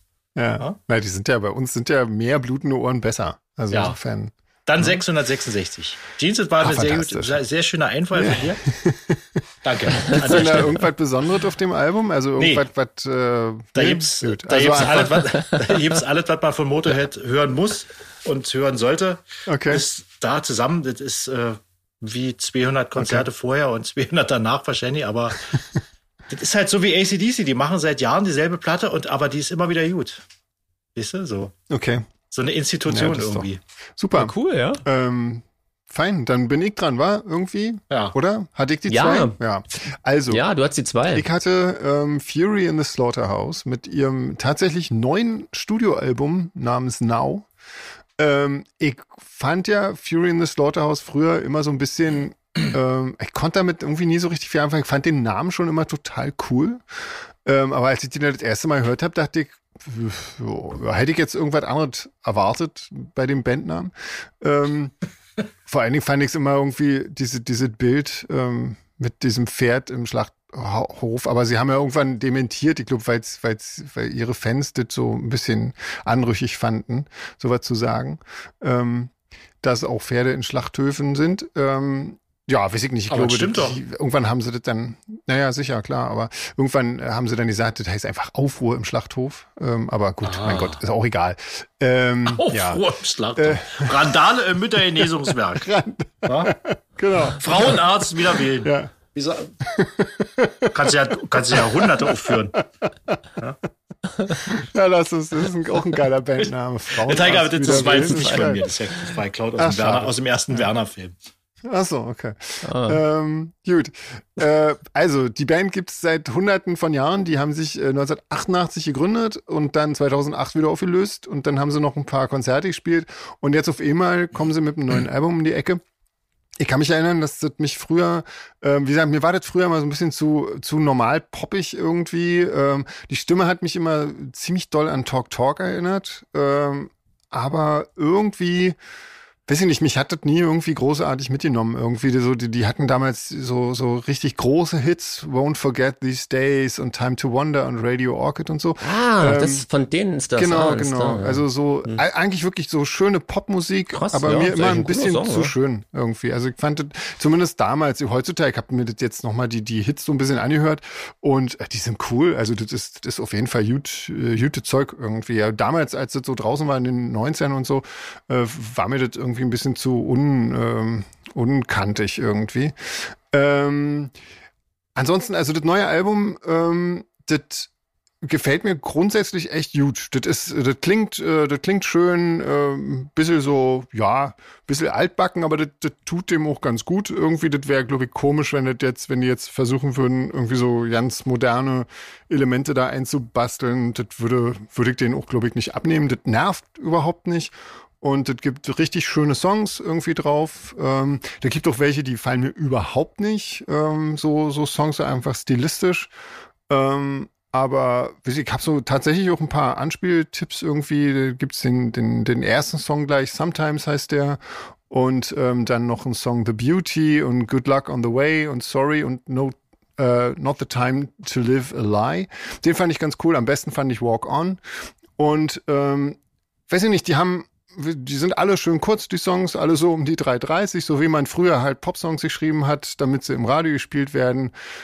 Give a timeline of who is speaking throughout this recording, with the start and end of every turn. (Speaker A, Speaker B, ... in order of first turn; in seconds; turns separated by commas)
Speaker A: 0.3-5.0, Speaker B: 3.7-4.0, Speaker B: 4.7-8.6, Speaker A: 6.6-7.4, Speaker A: 8.1-9.4, Speaker B: 9.6-10.8, Speaker A: 10.0-15.5, Speaker B: 12.4-12.6, Speaker B: 13.7-25.6, Speaker A: 19.5-19.8, Speaker A: 22.9-23.2, Speaker B: 26.3-30.2, Speaker B: 30.9-31.5, Speaker A: 31.7-32.1, Speaker B: 32.3-33.6, Speaker A: 32.9-34.3, Speaker C: 34.1-34.8, Speaker A: 34.8-40.4, Speaker C: 38.9-39.3, Speaker C: 40.3-41.2, Speaker A: 41.1-47.5, Speaker A: 48.2-56.8, Speaker A: 57.4-64.9, Speaker A: 65.7-92.8, Speaker B: 83.1-83.8, Speaker B: 90.2-90.8, Speaker B: 92.2-95.7, Speaker A: 93.4-94.2, Speaker A: 94.9-97.8, Speaker B: 96.2-96.5, Speaker B: 97.4-99.5, Speaker A: 98.6-98.9, Speaker A: 99.6-103.2, Speaker B: 100.7-102.6, Speaker A: 104.3-108.7, Speaker B: 107.0-111.1, Speaker C: 107.7-108.6, Speaker A: 109.6-110.1, Speaker A: 111.6-125.8, Speaker C: 112.6-113.0, Speaker A: 126.6-138.8, Speaker A: 139.5-149.7, Speaker C: 148.8-152.0, Speaker A: 150.4-174.1, Speaker C: 153.9-155.5, Speaker A: 174.9-177.7, Speaker A: 178.2-206.1, Speaker A: 206.7-224.6, Speaker A: 225.2-226.2, Speaker A: 226.7-234.5